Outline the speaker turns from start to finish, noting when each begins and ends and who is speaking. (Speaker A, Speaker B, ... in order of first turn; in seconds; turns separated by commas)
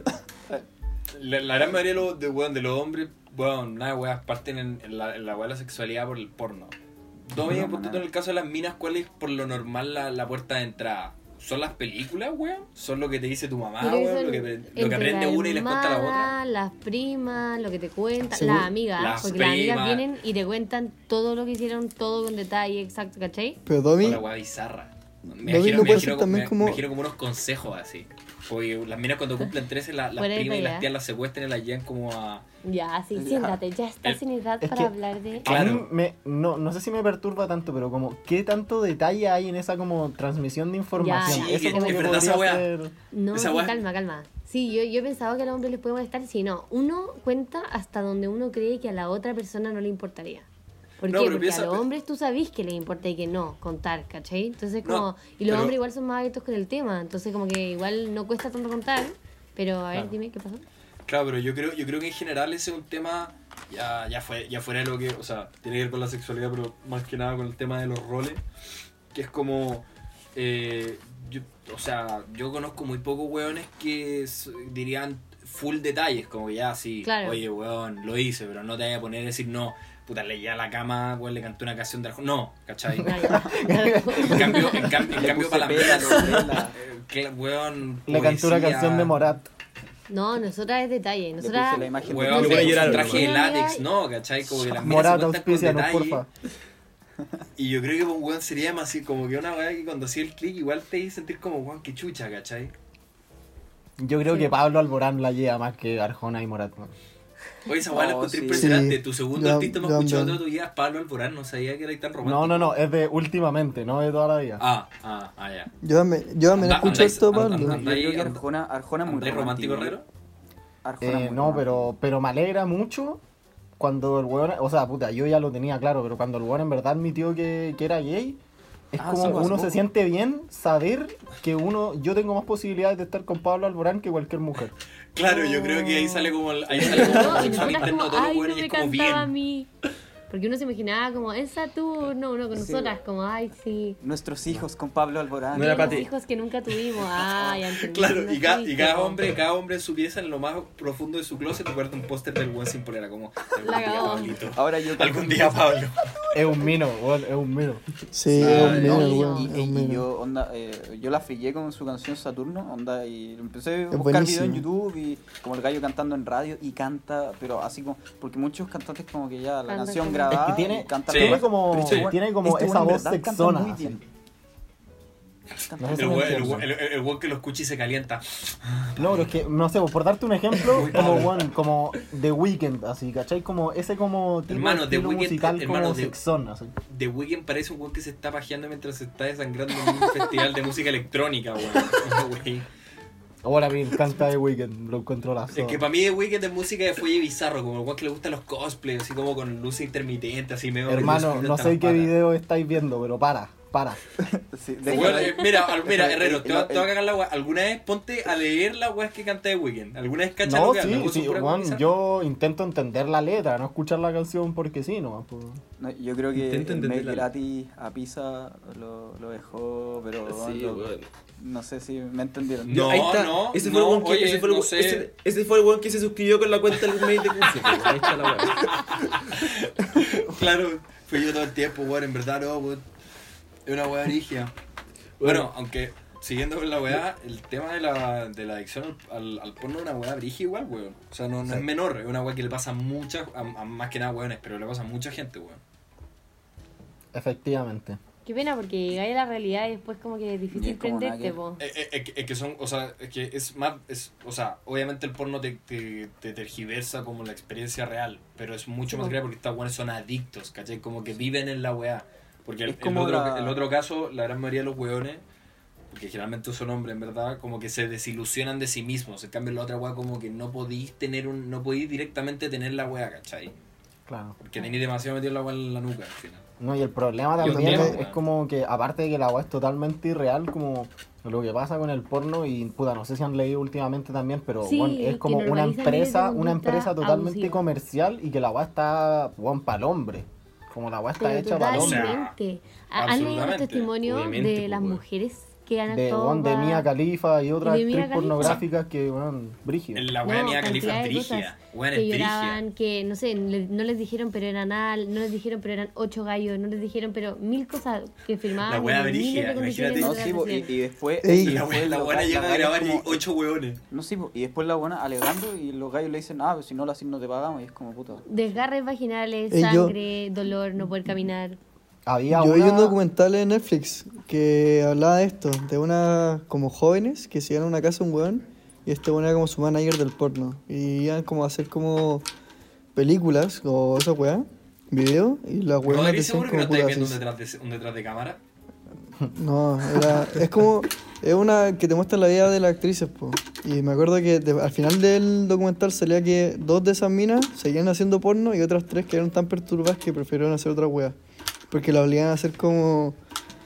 Speaker A: 1.1-6.7, Speaker A: 7.3-16.3, Speaker B: 7.4-8.0, Speaker C: 13.8-23.6, Speaker D: 18.3-18.7, Speaker A: 19.0-20.1, Speaker D: 23.7-24.2, Speaker A: 24.0-32.5, Speaker D: 25.4-26.8, Speaker C: 30.2-30.9, Speaker C: 32.6-35.5, Speaker B: 33.1-33.6, Speaker E: 34.6-34.9, Speaker A: 35.4-35.9, Speaker E: 35.4-42.9, Speaker C: 41.0-42.3, Speaker A: 41.2-42.7, Speaker C: 43.1-50.5, Speaker A: 43.3-43.8, Speaker C: 51.0-60.6, Speaker A: 51.0-51.8, Speaker A: 54.8-55.8, Speaker A: 61.1-68.4, Speaker A: 69.1-83.1, Speaker C: 77.0-77.4, Speaker E: 83.0-85.1, Speaker C: 83.0-85.0, Speaker A: 84.2-89.2, Speaker B: 85.1-86.8, Speaker E: 88.1-89.5, Speaker C: 90.1-93.9, Speaker B: 91.4-93.3, Speaker A: 92.0-96.2, Speaker F: 92.3-93.3, Speaker E: 94.5-96.3, Speaker A: 97.6-102.7, Speaker E: 104.0-106.9, Speaker A: 107.7-112.8, Speaker B: 107.9-108.8, Speaker D: 108.6-110.4, Speaker E: 112.2-114.6, Speaker A: 114.6-115.7, Speaker D: 115.8-117.8, Speaker A: 116.5-118.4, Speaker B: 117.5-120.0, Speaker A: 119.0-120.1, Speaker B: 120.8-121.9, Speaker E: 121.0-123.2, Speaker E: 123.8-128.4, Speaker E: 128.9-134.8, Speaker B: 129.0-129.8, Speaker A: 135.1-139.3, Speaker C: 135.2-139.7, Speaker B: 136.8-137.7, Speaker C: 140.3-144.0, Speaker B: 142.5-142.9, Speaker B: 144.0-146.1, Speaker F: 145.5-146.1, Speaker C: 145.5-149.3, Speaker A: 147.4-156.4, Speaker C: 153.6-154.4, Speaker B: 153.8-155.6, Speaker E: 156.3-157.8, Speaker D: 158.1-160.1, Speaker B: 158.3-174.1, Speaker A: 158.4-159.0, Speaker C: 158.5-159.5, Speaker D: 163.9-164.7, Speaker C: 169.7-170.4, Speaker E: 170.3-174.0, Speaker A: 171.1-172.1, Speaker A: 175.6-179.4, Speaker B: 175.7-176.6, Speaker E: 175.8-176.7, Speaker E: 179.0-186.7, Speaker A: 180.6-181.5, Speaker A: 184.5-186.2, Speaker A: 186.9-192.7, Speaker E: 193.4-195.9, Speaker A: 195.5-202.1, Speaker E: 200.9-204.0, Speaker B: 204.2-206.9, Speaker C: 204.9-205.7, Speaker A: 204.9-211.9, Speaker E: 210.4-215.6, Speaker B: 215.8-223.1, Speaker F: 216.3-217.3, Speaker F: 220.3-221.1, Speaker A: 222.7-225.1, Speaker F: 222.7-228.8, Speaker A: 228.5-232.8, Speaker A: 233.7-234.5, Speaker F: 235.2-235.5, Speaker A: 235.2-245.6, Speaker E: 247.1-248.0, Speaker C: 248.3-251.6, Speaker B: 250.5-251.4, Speaker A: 251.6-265.2, Speaker C: 258.9-259.2, Speaker B: 262.7-263.6, Speaker A: 265.9-273.5, Speaker E: 274.1-274.4, Speaker A: 274.4-276.4, Speaker E: 276.6-292.2, Speaker A: 277.4-278.2, Speaker D: 277.4-277.9, Speaker C: 284.6-287.6, Speaker C: 291.2-296.9, Speaker A: 291.7-292.3, Speaker A: 292.9-293.9, Speaker F: 294.0-295.0, Speaker E: 295.9-300.1, Speaker C: 297.6-298.6, Speaker A: 299.9-302.6, Speaker C: 300.2-310.7, Speaker A: 308.6-310.2, Speaker B: 310.0-313.2, Speaker D: 311.2-311.6, Speaker A: 311.4-313.8, Speaker B: 313.9-318.4, Speaker C: 318.3-321.6, Speaker D: 319.5-319.9, Speaker E: 322.1-323.0, Speaker D: 322.3-332.3, Speaker D: 332.9-337.2, Speaker A: 335.9-338.4, Speaker D: 339.3-351.2, Speaker D: 351.7-353.2